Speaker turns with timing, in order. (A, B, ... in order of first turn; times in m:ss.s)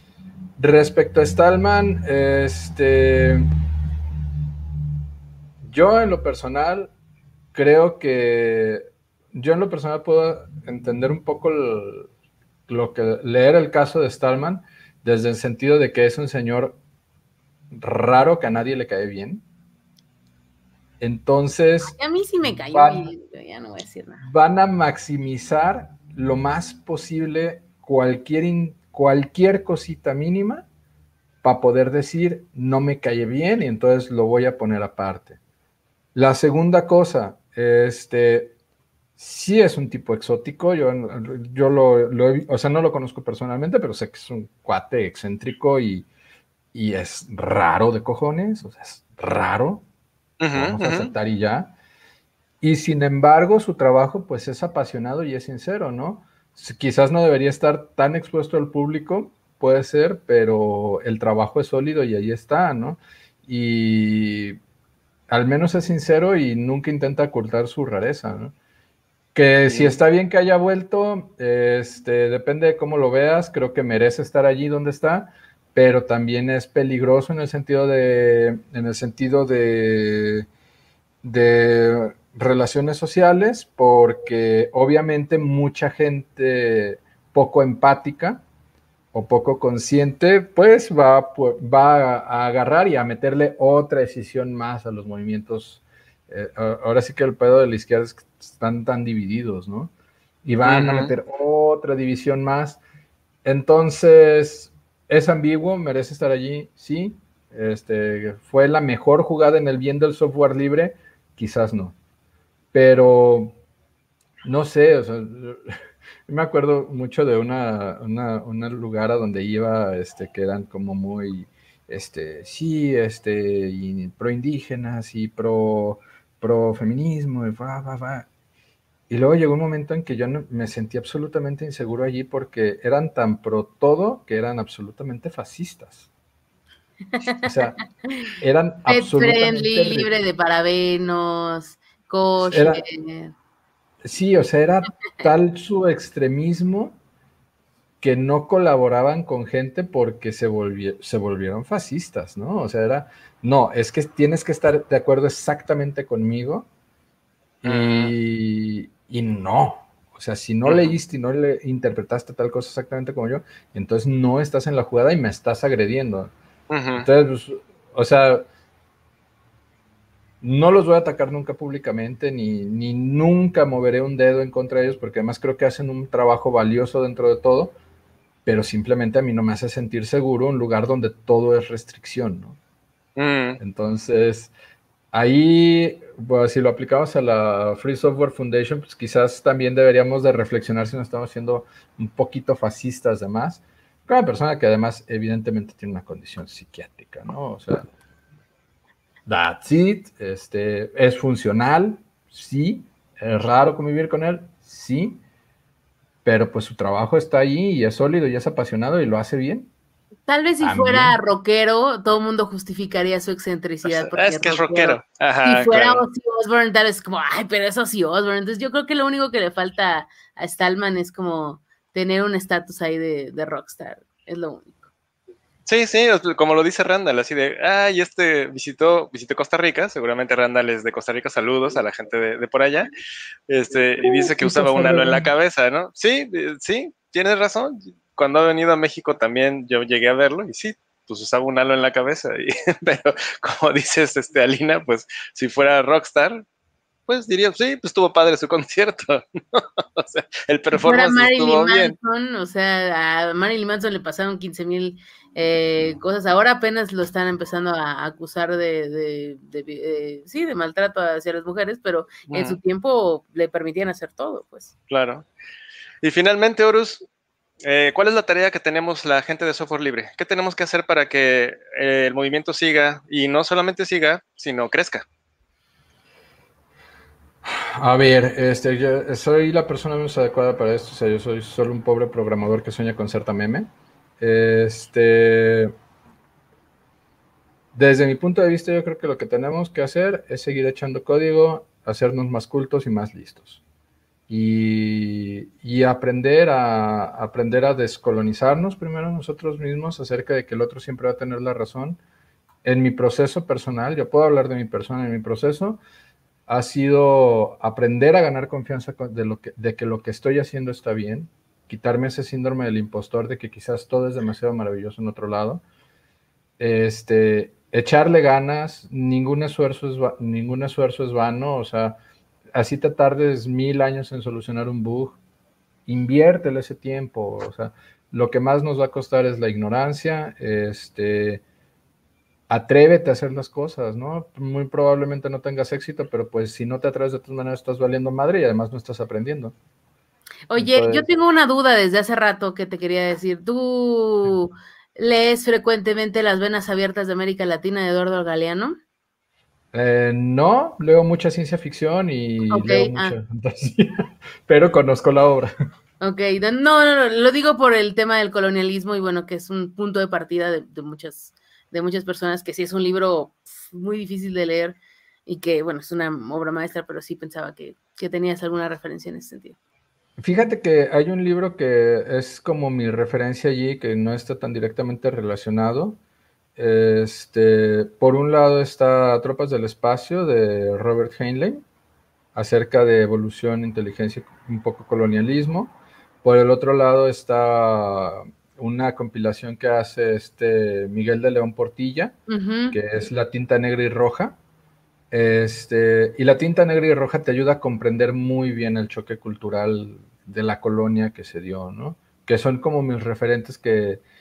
0:00.6-0:03.5 A
0:05.6-0:06.9 A
0:07.5-0:12.1 A
0:12.7-0:16.8 A
0:17.7-0:19.4 A
0:21.0-0:21.9 A
0:21.8-0:24.2 B
0:22.7-0:23.1 A
0:24.2-0:30.6 A
0:31.4-0:35.4 A
0:36.1-0:38.5 A
0:39.2-0:46.1 A
0:46.7-0:49.8 A
0:50.4-0:51.1 C
0:50.5-0:51.7 A
0:52.6-1:04.6 A
1:05.3-1:08.5 A
1:09.3-1:20.5 A
1:09.7-1:10.0 C
1:21.2-1:28.4 A
1:29.1-1:39.9 A
1:40.4-1:42.8 A
1:40.6-1:41.1 C
1:43.4-1:52.0 A
1:52.7-1:53.6 A
1:54.4-1:55.7 A
1:56.3-2:08.3 A
2:09.1-2:16.1 A
2:17.1-2:18.3 B
2:17.4-2:17.8 A
2:18.4-2:20.1 A
2:18.9-2:23.3 B
2:22.4-2:22.8 A
2:24.0-2:27.0 A
2:28.0-2:36.7 A
2:37.6-2:46.3 A
2:37.6-2:38.1 C
2:40.6-2:40.9 C
2:46.7-2:47.1 C
2:46.9-2:48.4 A
2:50.4-2:57.8 A
2:58.4-3:02.6 A
3:03.2-3:03.6 C
3:03.6-3:04.5 A
3:05.1-3:17.9 A
3:19.2-3:25.2 A
3:26.2-3:29.7 A
3:30.2-3:44.8 B
3:30.6-3:31.2 A
3:33.8-3:36.0 C
3:45.6-3:52.9 C
3:53.5-4:06.4 C
3:54.0-3:55.3 A
4:07.1-4:11.9 C
4:10.8-4:24.7 B
4:22.3-4:22.6 C
4:24.9-4:25.2 C
4:26.0-4:27.0 C
4:27.6-4:35.0 C
4:37.4-4:45.7 A
4:47.7-4:53.6 A
4:54.3-5:02.0 A
5:02.6-5:05.8 A
5:06.5-5:15.6 A
5:16.6-5:22.0 A
5:22.5-5:25.2 A
5:25.9-5:31.4 A
5:32.5-5:39.5 A
5:40.5-5:48.8 B
5:40.6-5:41.1 A
5:49.7-5:55.5 A
5:52.5-5:53.2 B
5:56.0-6:09.6 B
6:10.2-6:16.0 A
6:16.6-6:21.6 A
6:22.3-6:32.2 A
6:32.3-6:32.8 B
6:32.7-6:34.4 A
6:35.1-6:44.0 A